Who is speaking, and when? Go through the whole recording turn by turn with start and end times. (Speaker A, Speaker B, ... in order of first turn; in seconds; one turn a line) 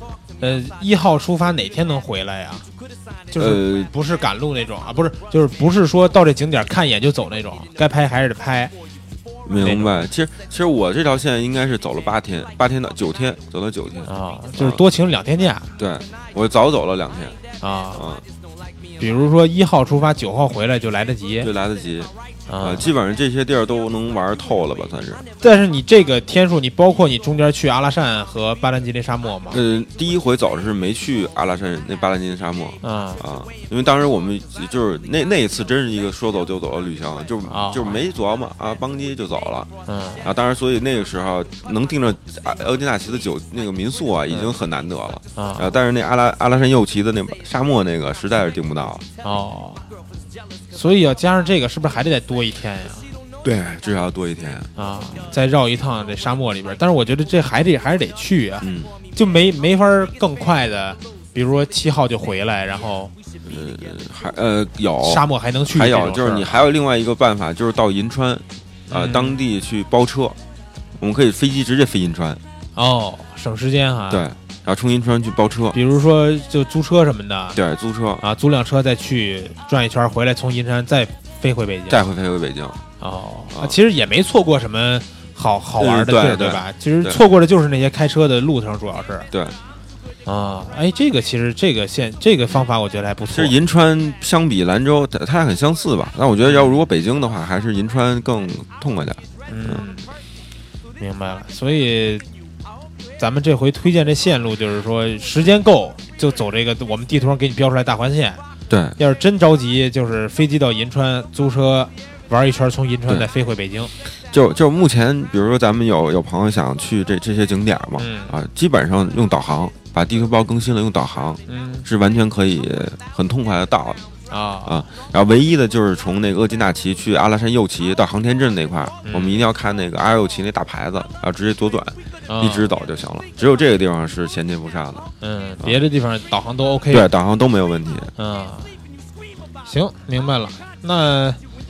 Speaker A: 0.4-2.6
Speaker A: 3.3-8.7
Speaker B: 3.4-3.9
Speaker B: 9.4-14.8
Speaker A: 9.6-10.1
Speaker A: 14.0-15.7
Speaker B: 15.8-17.4
Speaker A: 17.6-18.1
Speaker B: 17.9-18.2
Speaker A: 19.0-21.5
Speaker B: 21.4-25.2
Speaker A: 22.5-22.9
Speaker A: 25.4-29.6
Speaker B: 29.5-39.7
Speaker A: 32.8-33.2
Speaker A: 37.5-38.0
Speaker A: 39.9-40.3
Speaker B: 40.2-49.0
Speaker A: 45.4-45.7
Speaker A: 49.2-49.8
Speaker A: 50.7-53.1
Speaker B: 53.4-55.4
Speaker A: 54.8-63.1
Speaker B: 58.6-58.9
Speaker B: 63.4-70.4
Speaker A: 65.0-66.6
Speaker A: 68.9-69.4
Speaker B: 71.0-72.4
Speaker A: 72.8-74.2
Speaker B: 74.1-75.8
Speaker A: 75.7-77.6
Speaker B: 77.5-78.2
Speaker A: 78.2-82.1
Speaker B: 81.9-82.8
Speaker A: 83.0-89.3
Speaker B: 83.5-83.8
Speaker B: 85.8-87.2
Speaker B: 89.3-89.6
Speaker A: 90.2-93.5
Speaker B: 93.3-99.8
Speaker A: 96.4-96.8
Speaker A: 99.5-100.1
Speaker A: 101.0-102.2
Speaker A: 103.2-108.4
Speaker B: 108.7-109.0
Speaker A: 109.0-113.9
Speaker B: 114.2-124.0
Speaker A: 118.0-118.3
Speaker A: 121.5-121.9
Speaker A: 124.3-124.8
Speaker B: 124.7-135.1
Speaker A: 129.0-129.4
Speaker A: 132.3-132.7
Speaker A: 135.2-137.1
Speaker B: 136.9-138.1
Speaker A: 138.2-138.7
Speaker A: 139.6-141.4